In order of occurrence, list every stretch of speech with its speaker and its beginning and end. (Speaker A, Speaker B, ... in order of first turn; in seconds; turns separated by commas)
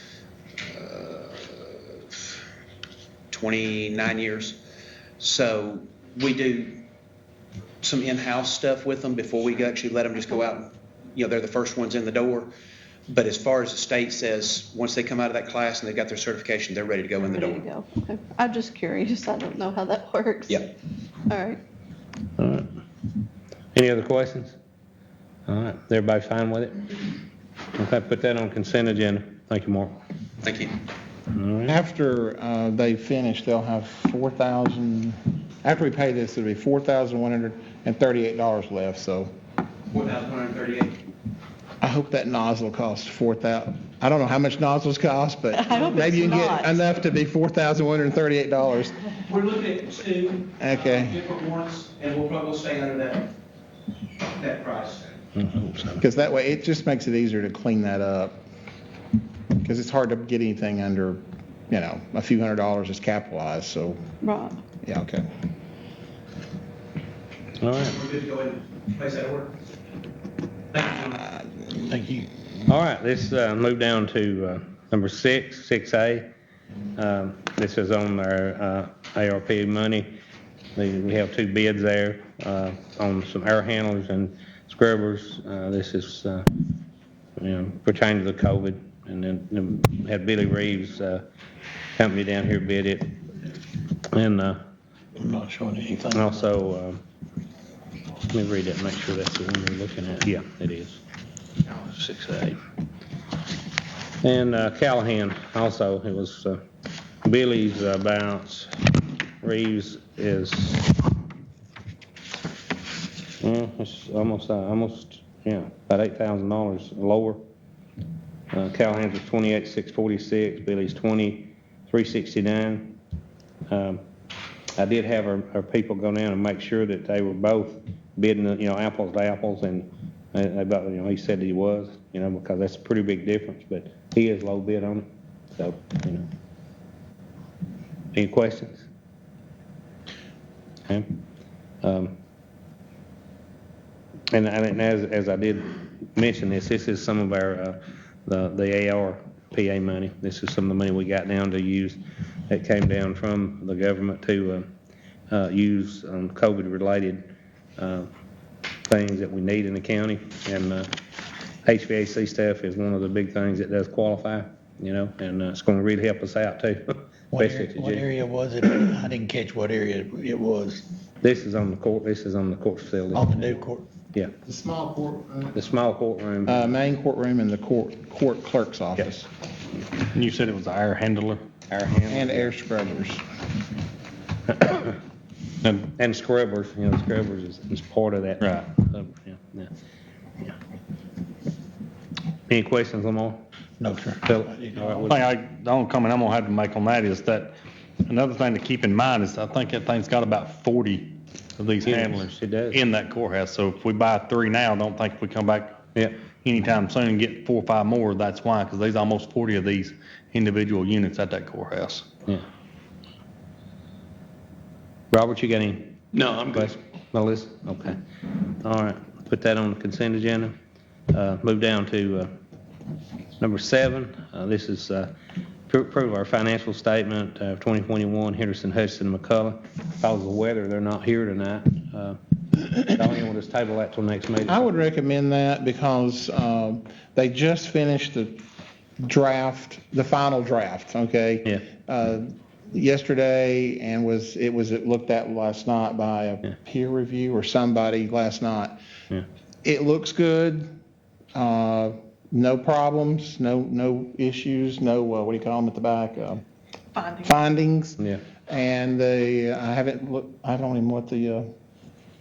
Speaker A: 0.6-1.8, Speaker A: 3.3-4.6, Speaker A: 5.2-6.8, Speaker A: 7.8-12.5, Speaker A: 13.1-17.6, Speaker B: 17.2-20.7, Speaker B: 21.3-21.6, Speaker C: 22.4-22.7, Speaker C: 23.7-24.6, Speaker C: 25.5-26.8, Speaker C: 27.7-29.9, Speaker A: 30.4-30.7, Speaker C: 31.3-31.8, Speaker D: 31.6-39.3, Speaker A: 39.9-41.0, Speaker D: 41.8-49.0, Speaker B: 45.5-46.8, Speaker A: 49.2-53.3, Speaker D: 50.6-51.2, Speaker A: 54.3-55.1, Speaker C: 55.3-56.0, Speaker D: 56.0-58.4, Speaker D: 59.6-64.0, Speaker B: 64.2-64.6, Speaker D: 64.8-65.2, Speaker C: 67.6-67.9, Speaker A: 67.8-69.5, Speaker A: 70.7-71.3, Speaker E: 71.9-72.3, Speaker C: 72.7-76.3, Speaker C: 77.0-80.1, Speaker C: 80.8-86.7, Speaker C: 87.4-91.2, Speaker C: 92.0-93.2, Speaker C: 94.1-94.6, Speaker E: 95.2-96.3, Speaker C: 96.1-97.0, Speaker C: 98.3-101.0, Speaker C: 101.8-102.5, Speaker C: 104.2-106.6, Speaker C: 107.2-108.9, Speaker C: 109.4-111.0, Speaker C: 113.4-117.4, Speaker C: 118.5-123.0, Speaker C: 123.7-124.0, Speaker C: 124.8-136.2, Speaker C: 138.1-138.8, Speaker C: 141.8-142.1, Speaker C: 144.3-154.7, Speaker C: 155.3-158.1, Speaker C: 158.9-160.9, Speaker C: 161.6-168.1, Speaker E: 167.3-170.8, Speaker C: 171.2-173.4, Speaker E: 173.1-173.8, Speaker D: 174.4-175.5, Speaker C: 175.5-176.7, Speaker D: 176.4-179.3, Speaker F: 180.1-181.4, Speaker C: 181.7-182.5, Speaker D: 182.1-183.2, Speaker C: 184.5-185.0, Speaker C: 185.8-189.7, Speaker F: 188.4-188.7, Speaker C: 192.5-193.4, Speaker E: 193.8-195.1, Speaker C: 194.2-195.2, Speaker F: 195.0-205.8, Speaker C: 201.8-202.8, Speaker F: 206.4-212.1, Speaker C: 215.1-218.0, Speaker C: 218.6-220.6, Speaker C: 221.1-222.3, Speaker C: 223.4-225.1, Speaker C: 225.7-234.7, Speaker D: 234.5-238.4, Speaker D: 239.0-248.8, Speaker D: 249.6-250.7, Speaker D: 251.3-256.4, Speaker D: 257.1-261.5